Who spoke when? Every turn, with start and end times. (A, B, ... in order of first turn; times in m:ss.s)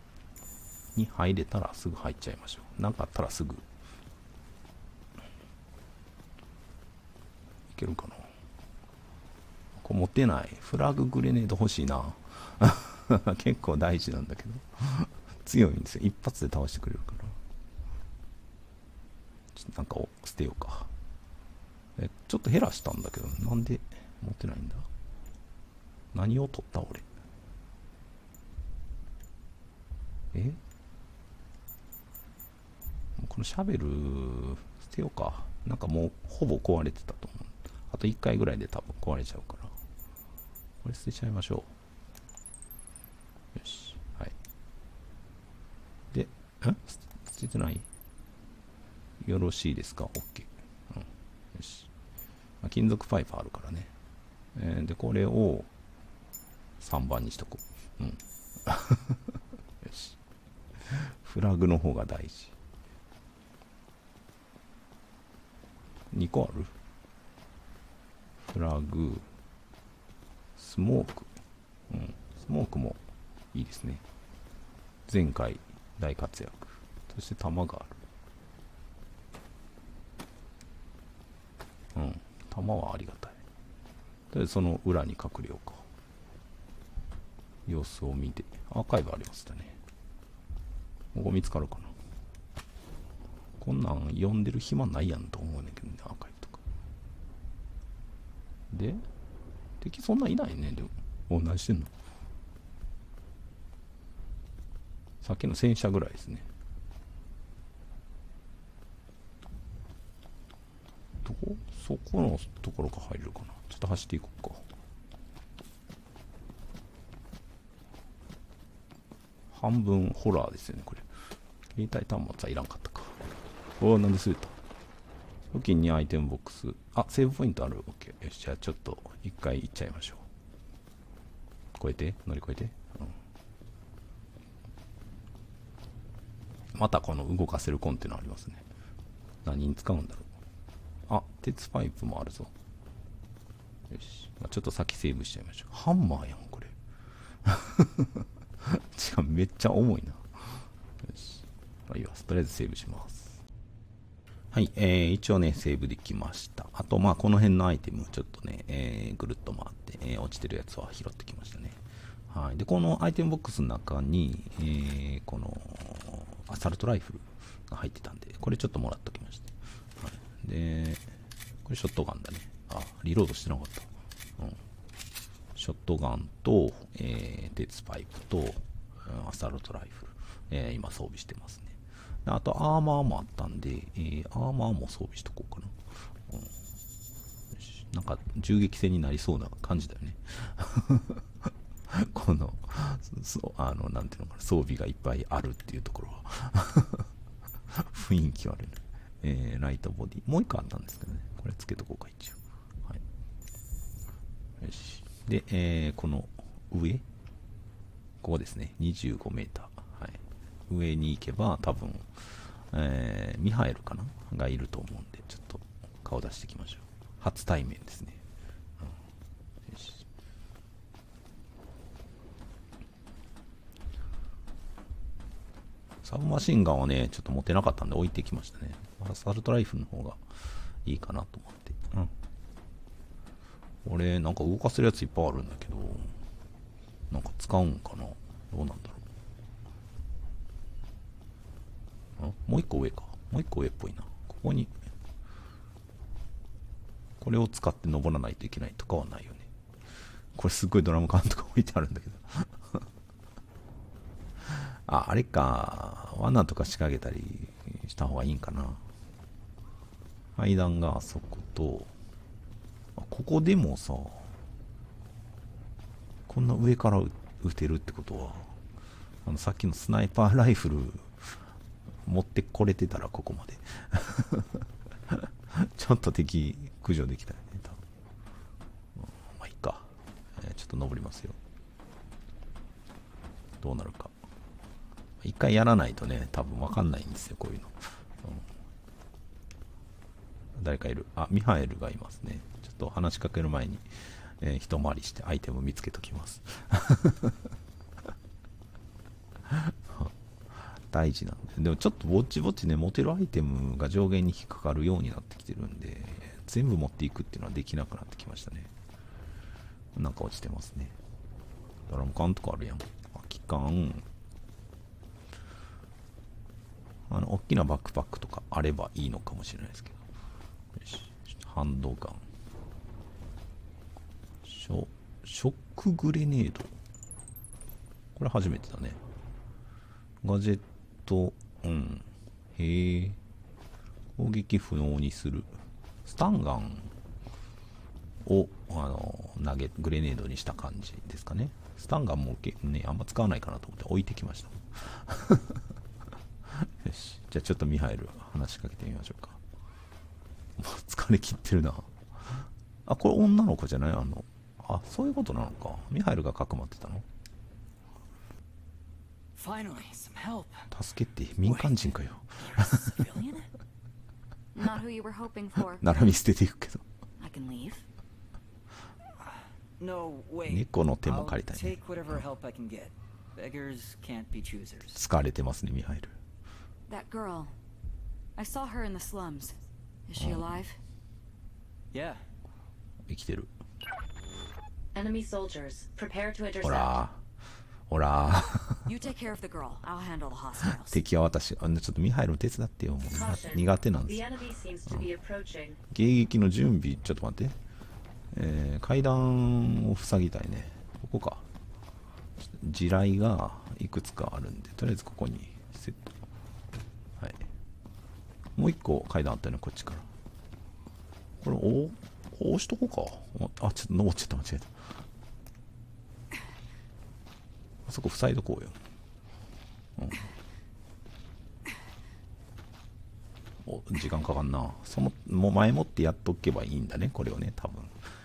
0:01.0-0:03.6 A
0:07.7-0:08.3 A
0:09.8-0:17.4 A
0:19.5-0:20.9 A
0:22.0-0:24.9 A
0:26.1-0:27.1 A
0:30.3-0:30.6 A
0:33.2-0:39.7 A
0:40.8-0:41.7 A
0:43.6-0:44.4 A
0:46.1-0:47.9 A
0:49.2-0:51.9 A
0:52.6-0:53.9 A
0:54.6-0:55.7 A
0:56.8-0:59.2 A
0:59.8-1:00.2 A
1:00.8-1:02.6 A
1:06.1-1:06.7 A
1:08.5-1:09.3 A
1:10.6-1:11.3 A
1:11.9-1:13.0 A
1:13.5-1:14.0 A
1:15.1-1:18.0 A
1:22.0-1:23.4 A
1:24.3-1:25.8 A
1:27.7-1:29.8 A
1:31.1-1:31.9 A
1:33.6-1:36.6 A
1:38.7-1:39.0 A
1:39.8-1:41.9 A
1:45.2-1:46.5 A
1:51.2-1:54.7 A
1:59.5-2:01.0 A
2:01.7-2:03.2 A
2:03.8-2:04.6 A
2:05.5-2:10.2 A
2:11.8-2:13.2 A
2:16.7-2:18.6 A
2:19.4-2:20.3 A
2:21.1-2:22.5 A
2:23.9-2:26.7 A
2:27.4-2:33.4 A
2:34.5-2:51.0 A
2:51.6-2:54.6 A
2:55.6-3:05.8 A
3:07.5-3:11.2 A
3:11.9-3:17.1 A
3:17.7-3:23.0 A
3:24.6-3:27.0 A
3:28.2-3:38.2 A
3:39.7-3:40.0 A
3:46.0-3:50.2 A
3:50.8-3:52.1 A
3:53.8-3:56.1 A
3:57.1-3:59.0 A
4:02.2-4:04.7 A
4:07.2-4:09.5 A
4:10.4-4:12.8 A
4:14.5-4:18.8 A
4:20.4-4:21.9 A
4:23.0-4:24.3 A
4:26.3-4:28.6 A
4:29.2-4:31.4 A
4:32.1-4:37.8 A
4:39.0-4:41.4 A
4:43.6-4:44.1 A
4:45.2-4:48.5 A
4:50.6-4:53.9 A
4:54.4-4:57.4 A
4:59.5-5:08.7 A
5:10.0-5:11.0 A
5:11.9-5:14.0 A
5:17.1-5:20.0 A
5:20.8-5:22.2 A
5:24.4-5:26.8 A
5:28.2-5:29.0 A
5:30.2-5:33.2 A
5:34.2-5:36.9 A
5:38.2-5:45.6 A
5:46.5-5:49.4 A
5:50.6-5:57.0 A
5:59.4-6:00.7 B
6:00.7-6:03.0 A
6:01.4-6:03.5 B
6:04.5-6:05.8 C
6:05.8-6:06.8 A
6:07.2-6:07.8 C
6:09.2-6:15.0 B
6:10.5-6:12.2 A
6:14.9-6:16.1 A
6:16.9-6:17.5 C
6:18.4-6:19.6 C
6:20.1-6:20.8 C
6:20.2-6:20.5 A
6:21.9-6:22.2 B
6:23.1-6:23.5 A
6:24.9-6:27.0 D
6:26.6-6:27.2 A
6:27.9-6:28.9 A
6:28.9-6:31.0 C
6:30.8-6:34.2 A
6:33.1-6:35.8 D
6:35.9-6:37.6 A
6:38.3-6:41.4 A
6:42.4-6:46.1 A
6:47.2-6:47.4 A
6:48.6-6:50.1 A
6:51.4-6:54.7 A
6:57.9-6:58.8 A
7:00.0-7:00.3 A
7:03.6-7:08.0 A